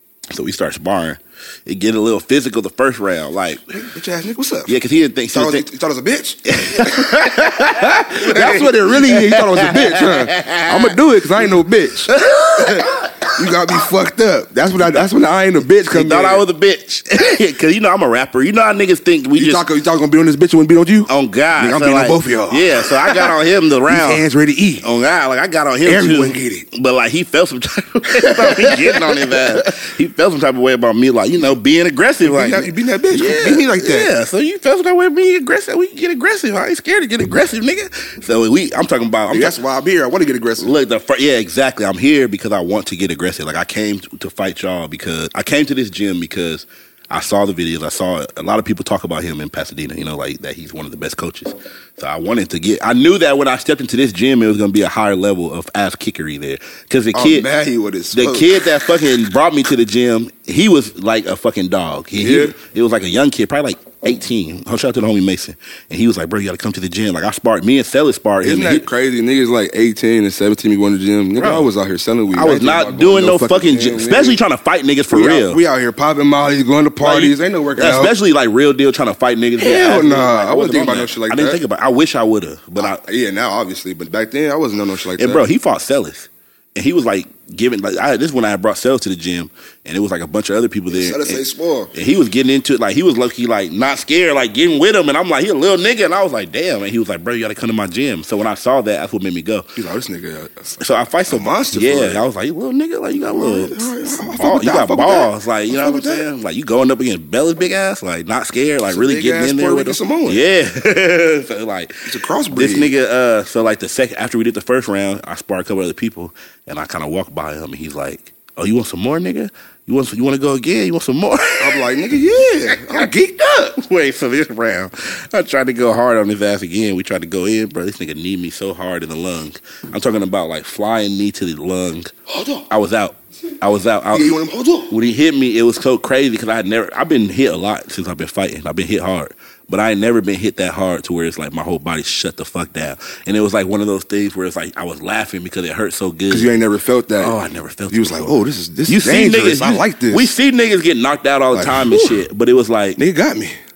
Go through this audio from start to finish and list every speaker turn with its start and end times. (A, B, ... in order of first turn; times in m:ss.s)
0:00.3-0:03.7 A
0:03.7-0:04.7 B
0:04.7-0:05.7 A
0:05.3-0:16.4 B
0:06.4-0:13.7 A
0:15.9-0:19.6 A
0:19.4-0:23.3 B
0:21.1-0:24.2 A
0:23.9-0:24.9 B
0:24.8-0:39.6 A
0:25.8-0:26.7 B
0:28.1-0:29.7 B
0:32.2-0:34.1 B
0:39.3-0:40.8 B
0:40.6-0:57.5 A
0:57.1-0:58.6 B
0:58.1-1:08.9 A
1:02.2-1:02.6 B
1:08.4-1:14.4 B
1:11.4-1:11.7 A
1:12.3-1:15.6 A
1:15.1-1:18.1 B
1:17.0-1:23.0 A
1:19.6-1:21.6 B
1:22.8-1:25.4 B
1:25.2-1:31.4 A
1:30.9-1:31.9 B
1:31.9-1:39.7 A
1:39.8-1:42.2 B
1:40.8-2:01.9 A
1:43.3-1:46.2 B
1:48.9-1:50.4 B
1:52.0-1:52.9 B
2:01.6-2:03.8 B
2:02.7-2:03.1 A
2:03.8-2:12.1 A
2:12.3-2:12.7 B
2:12.7-2:14.4 A
2:14.1-2:15.0 B
2:14.9-2:26.5 A
2:26.3-2:27.4 B
2:27.2-2:28.3 A
2:27.9-2:30.3 B
2:28.9-2:33.0 A
2:31.5-2:32.2 B
2:33.0-2:33.6 B